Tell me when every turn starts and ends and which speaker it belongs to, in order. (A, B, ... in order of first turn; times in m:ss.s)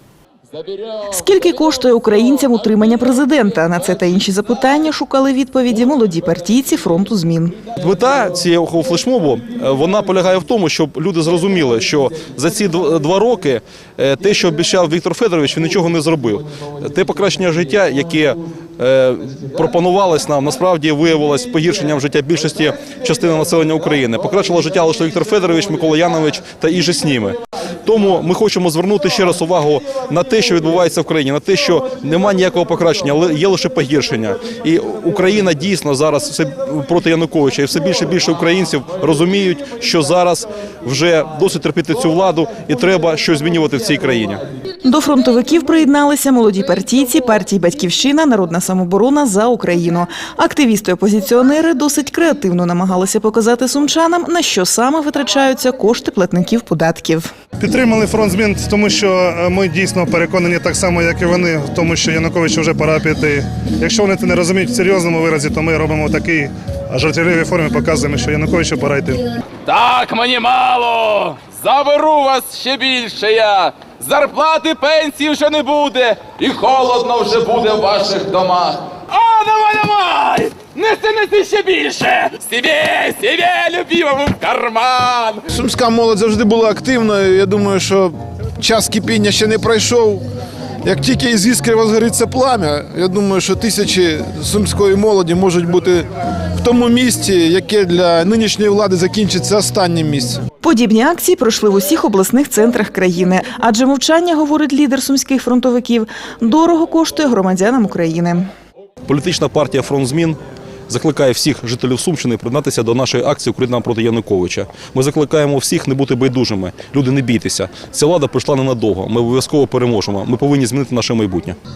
0:00.5-0:01.0 A
0:01.0-0:07.7 B
0:07.8-0:44.4 C
0:44.8-0:57.3 B
0:57.6-1:09.2 D
1:09.6-1:25.4 A
1:25.5-1:30.2 E
1:30.8-1:40.4 E
1:40.6-1:48.5 B
1:49.0-2:01.6 C